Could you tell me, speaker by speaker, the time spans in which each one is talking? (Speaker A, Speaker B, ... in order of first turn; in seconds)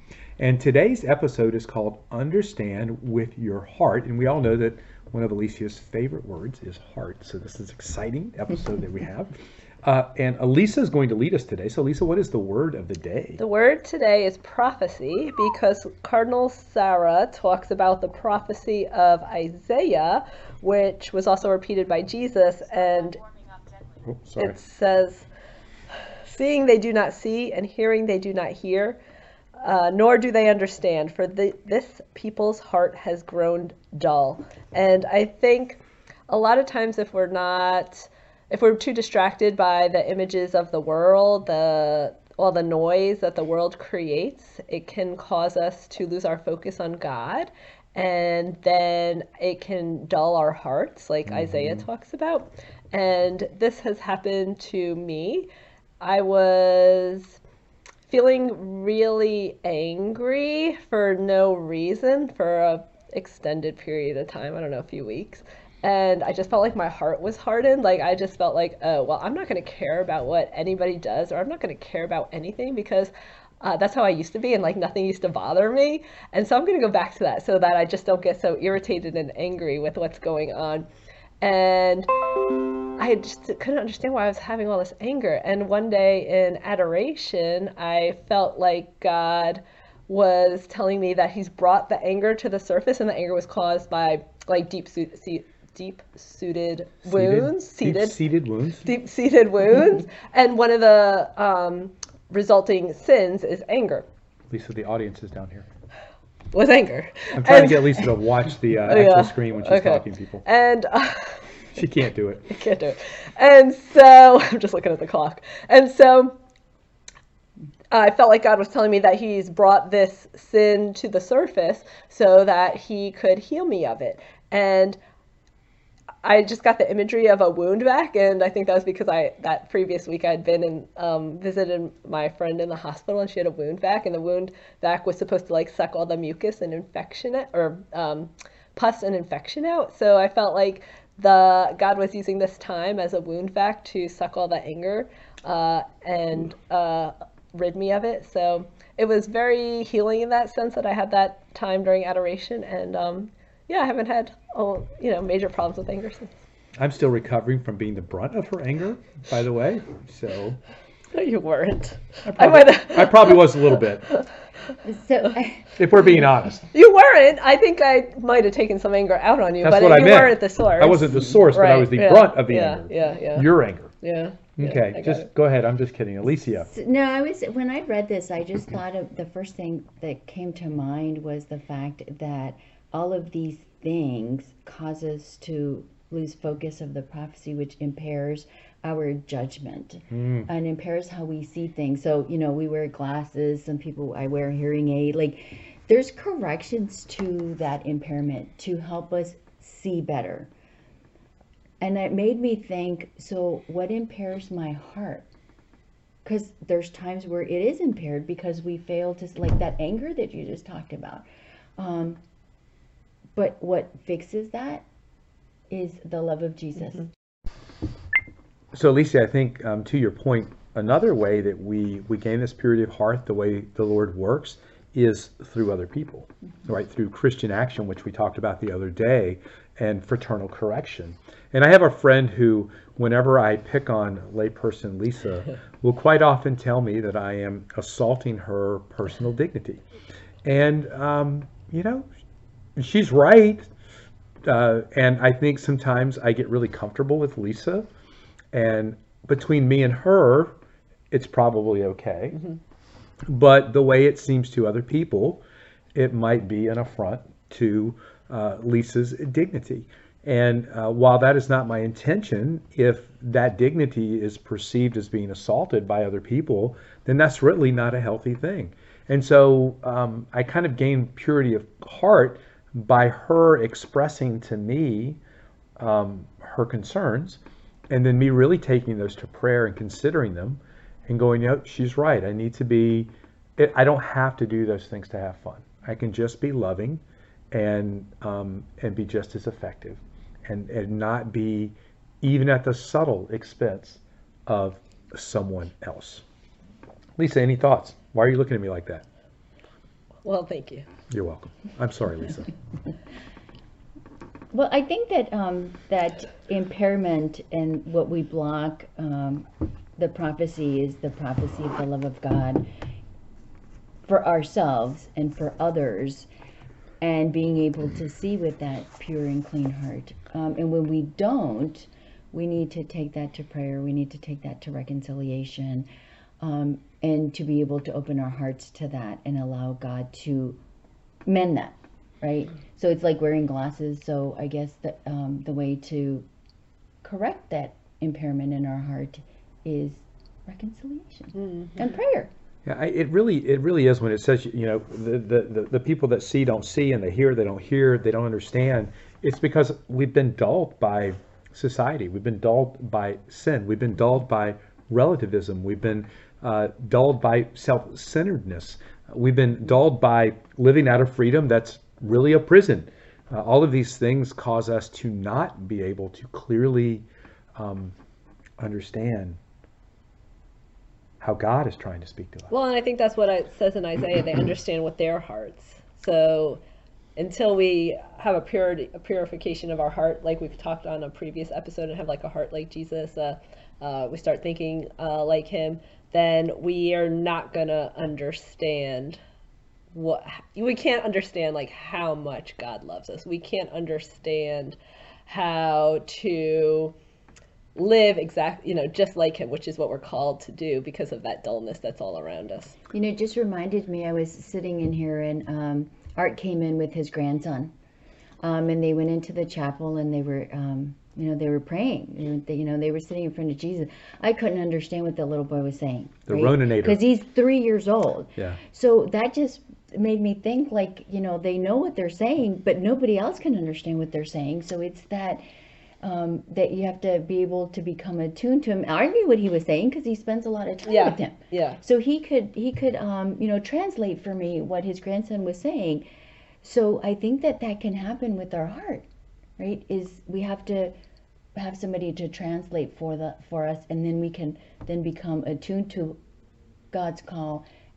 Speaker A: 0.4-13.4, 24.0-24.6, 51.3-51.8, 97.0-98.9, 104.5-105.7, 107.3-110.4, 111.7-112.5, 156.8-160.6, 162.2-164.1, 165.8-166.7, 169.6-173.9, 174.6-176.7, 190.1-190.5, 218.7-239.8, 240.4-242.1, 242.8-243.7, 244.4-247.9, 248.5-250.5, 251.1-252.4, 253.3-255.4, 255.9-275.2, 275.8-296.2, 297.2-299.0, 301.1-302.5, 342.6-367.9, 368.6-369.4, 371.2-372.5, 416.3-417.0
Speaker B: 13.4-23.2, 24.4-25.2, 26.2-29.0, 29.6-55.5, 56.0-57.4, 58.1-80.9, 81.4-82.1, 83.0-98.2, 98.8-104.0, 106.5-108.2, 108.8-111.4, 112.5-116.4, 117.9-125.0, 126.2-156.3, 161.1-164.2, 166.7-175.3, 300.2-300.9, 341.4-341.7, 372.5-376.6, 377.1-389.2, 389.9-396.9, 397.8-402.7, 430.9-431.8
Speaker C: 164.8-165.8, 176.7-200.5, 201.8-205.3, 206.2-211.2, 211.8-212.2, 213.3-214.8, 215.7-217.1, 304.5-309.4, 310.0-312.6, 314.1-316.3, 317.0-325.9, 326.4-330.6, 331.2-336.2, 337.0-342.3, 402.9-407.7, 408.4-425.4, 426.0-436.0, 436.6-439.1, 439.6-440.9, 441.6-446.2, 446.9-447.6